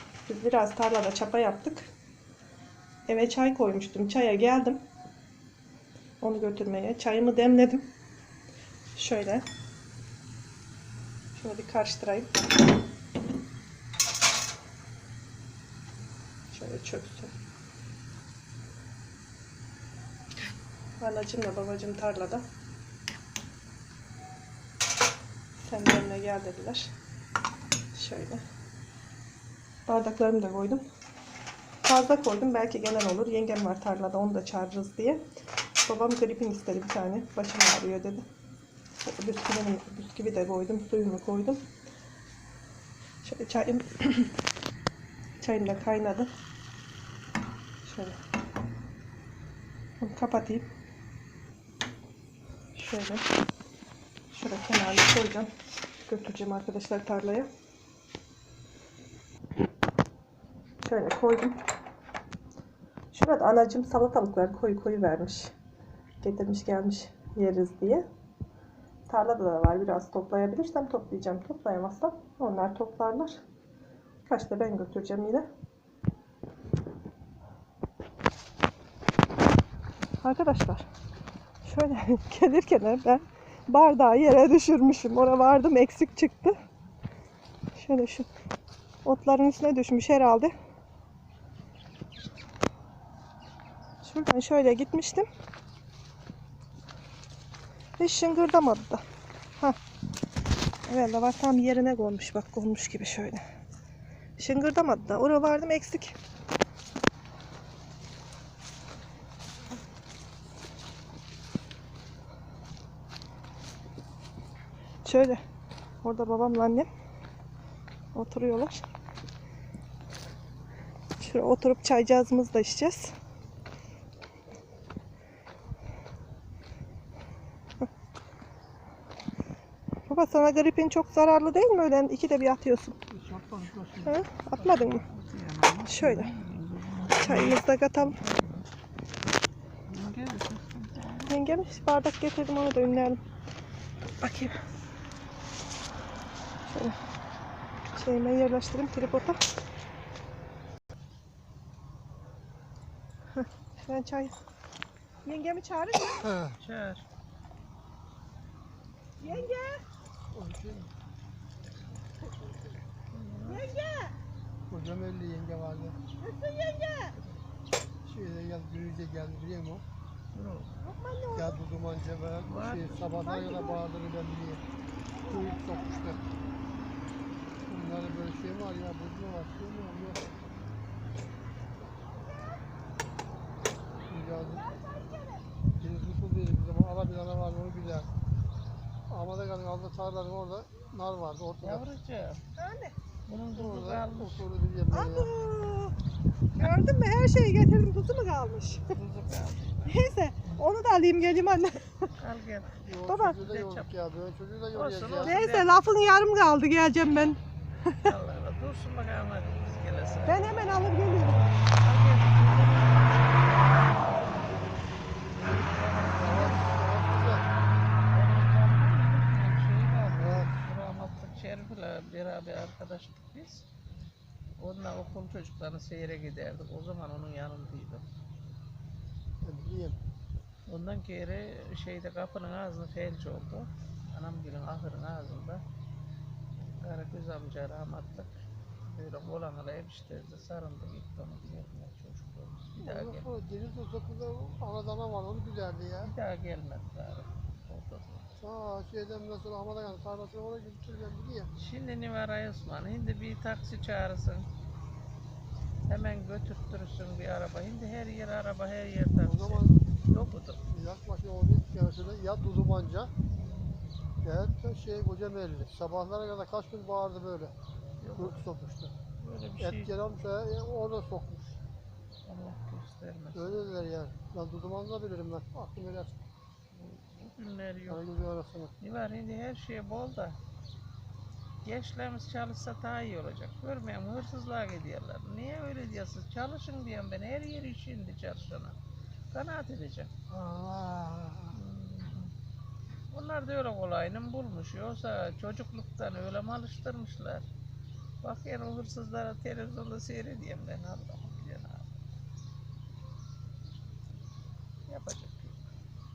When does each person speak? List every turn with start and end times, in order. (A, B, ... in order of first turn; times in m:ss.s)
0:00.3-0:01.9 A
0:03.1-0:04.8 A
0:06.2-0:07.9 A
0:08.9-0:09.4 A
0:11.3-0:12.3 A
0:16.5-0:17.3 A
0:21.0-0:22.4 A
0:25.5-0:26.9 A
0:27.9-0:28.4 A
0:29.9-0:30.8 A
0:31.8-0:35.2 A
0:35.8-0:38.2 A
0:39.0-0:41.6 A
0:43.2-0:44.3 A
0:45.4-0:46.3 A
0:47.8-0:48.2 A
0:50.0-0:50.7 A
0:52.7-0:53.2 A
0:54.3-0:55.5 A
0:56.1-0:57.5 A
1:00.8-1:01.6 A
1:03.1-1:05.5 A
1:06.2-1:08.0 A
1:09.1-1:13.4 A
1:14.2-1:15.5 A
1:20.2-1:20.9 A
1:21.6-1:26.6 A
1:27.8-1:28.3 A
1:29.0-1:30.5 A
1:34.0-1:35.3 A
1:38.0-1:39.0 A
1:40.9-1:43.4 A
1:44.4-1:46.2 A
1:55.0-1:55.4 A
1:56.0-1:56.9 A
1:58.1-1:58.8 A
2:01.2-2:03.1 A
2:10.1-2:13.0 A
2:13.4-2:13.9 B
2:14.0-2:15.0 A
2:14.6-2:18.7 B
2:15.8-2:16.3 A
2:17.1-2:18.2 A
2:19.9-2:21.4 B
2:21.3-2:23.2 A
2:24.2-2:24.6 A
2:26.6-2:27.0 A
2:27.9-2:29.4 A
2:33.4-2:34.3 A
2:35.2-2:36.3 A
2:36.2-2:36.6 C
2:36.6-2:37.0 B
2:39.2-2:39.8 A
2:40.3-2:40.9 C
2:43.1-2:43.6 B
2:43.5-2:44.1 A
2:44.7-2:46.0 C
2:46.2-2:47.2 A
2:48.0-2:49.8 C
2:50.3-2:50.7 B
2:50.8-2:51.6 A
2:51.3-2:54.6 C
2:52.4-2:53.0 B
2:53.1-2:53.8 A
2:55.2-2:55.7 A
2:55.2-2:56.2 C
2:57.7-3:00.2 C
3:04.1-3:04.6 C
3:04.7-3:05.4 A
3:05.8-3:08.1 C
3:09.1-3:11.8 C
3:11.6-3:12.4 B
3:12.6-3:13.0 A
3:13.3-3:14.4 B
3:13.5-3:15.3 C
3:14.9-3:15.9 A
3:16.6-3:19.0 A
3:18.9-3:20.6 B
3:19.9-3:22.1 A
3:22.2-3:22.8 B
3:22.8-3:25.4 C
3:23.1-3:23.5 A
3:23.4-3:23.9 B
3:24.7-3:25.7 B
3:25.2-3:28.1 A
3:28.0-3:30.4 B
3:30.2-3:31.5 A
3:31.8-3:34.4 B
3:35.4-3:36.8 B
3:35.8-3:37.5 C
3:38.1-3:43.6 B
3:40.1-3:40.6 C
3:44.6-3:48.0 B
3:49.4-3:50.0 C
3:50.7-3:55.6 B
3:56.6-3:58.3 B
3:58.8-4:03.2 B
4:02.8-4:06.1 C
4:06.0-4:08.2 B
4:08.4-4:11.5 C
4:11.6-4:14.5 B
4:15.8-4:20.6 B
4:19.2-4:19.9 C
4:20.7-4:23.1 C
4:23.4-4:23.8 B
4:24.2-4:27.5 C
4:28.0-4:28.4 B
4:28.2-4:28.9 C
4:29.2-4:29.9 B
4:29.6-4:31.6 C
4:32.2-4:33.7 B
4:33.3-4:36.2 C
4:36.7-4:38.0 B
4:37.9-4:38.7 C
4:38.8-4:40.4 B
4:41.6-4:48.8 B
4:49.3-4:50.1 B
4:50.3-4:51.6 C
4:51.5-4:52.3 B
4:53.1-4:57.5 B
4:58.2-5:02.0 B
5:04.9-5:05.6 B